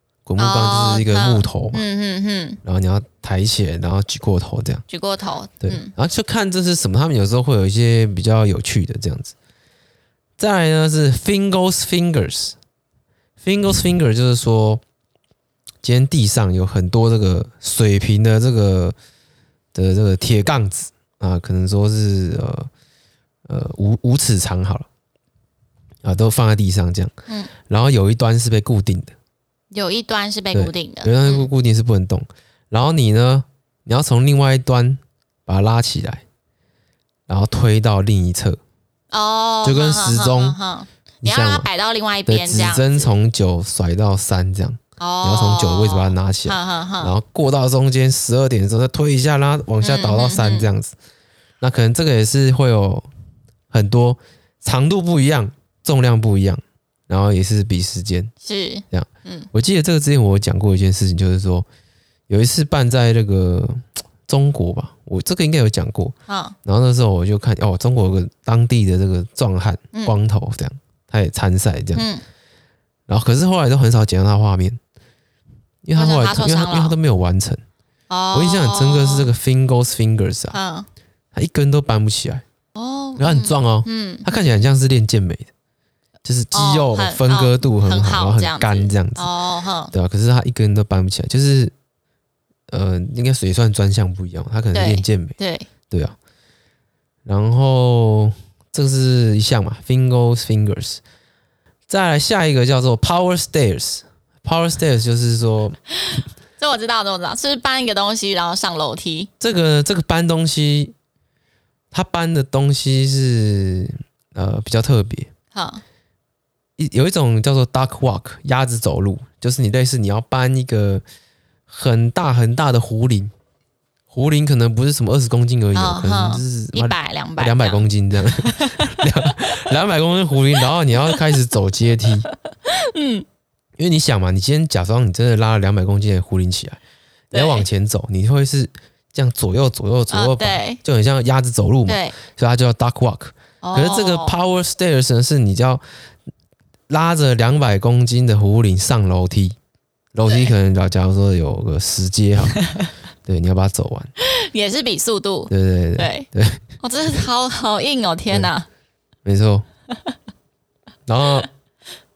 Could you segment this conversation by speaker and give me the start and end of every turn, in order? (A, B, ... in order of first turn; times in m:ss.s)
0:00.2-0:01.8 A
0:00.4-0:02.6 B
0:02.6-0:04.8 A
0:04.9-0:05.9 B
0:05.6-0:09.3 A
0:10.4-0:12.6 A
0:13.4-0:14.8 A
0:15.8-0:18.9 A
0:19.7-0:22.7 A
0:23.5-0:24.9 A
0:26.0-0:27.1 A
0:27.7-0:29.1 A
0:29.7-0:31.5 B
0:30.5-0:36.2 A
0:37.3-0:38.6 A
0:39.1-0:43.1 B
0:39.6-0:40.6 A
0:41.2-0:41.7 A
0:42.3-0:50.9 A
0:45.0-0:47.1 B
0:49.8-0:50.7 B
0:51.6-0:53.1 A
0:53.7-0:58.3 A
0:58.4-0:59.5 B
0:58.9-1:01.6 A
1:02.3-1:06.1 A
1:06.3-1:06.6 B
1:06.6-1:12.0 A
1:11.9-1:12.2 B
1:13.1-1:14.8 A
1:15.8-1:17.6 A
1:16.0-1:17.0 B
1:18.1-1:19.3 B
1:18.3-1:20.6 A
1:20.5-1:20.9 B
1:21.3-1:22.4 A
1:22.7-1:24.2 B
1:23.2-1:25.5 A
1:26.2-1:29.3 A
1:26.5-1:29.9 B
1:29.9-1:31.7 A
1:32.7-1:35.4 A
1:34.7-1:35.7 B
1:35.9-1:36.2 A
1:37.2-1:41.0 A
1:41.9-1:45.8 A
1:46.1-1:49.3 B
1:49.4-1:50.9 A
1:51.9-1:55.3 A
1:55.5-1:55.8 B
1:56.8-2:01.0 A
2:01.7-2:03.3 A
2:04.1-2:12.3 A
2:05.7-2:07.8 B
2:08.4-2:09.3 B
2:11.1-2:11.4 B
2:12.3-2:13.2 B
2:13.8-2:16.8 A
2:17.3-2:17.6 B
2:17.3-2:25.8 A
2:20.1-2:20.8 B
2:21.9-2:22.2 B
2:23.6-2:24.3 B
2:26.9-2:29.6 A
2:30.1-2:32.6 A
2:30.3-2:30.5 B
2:33.2-2:34.1 A
2:34.2-2:36.3 B
2:35.5-2:36.6 A
2:36.8-2:38.7 B
2:39.2-2:39.6 A
2:41.1-2:41.5 A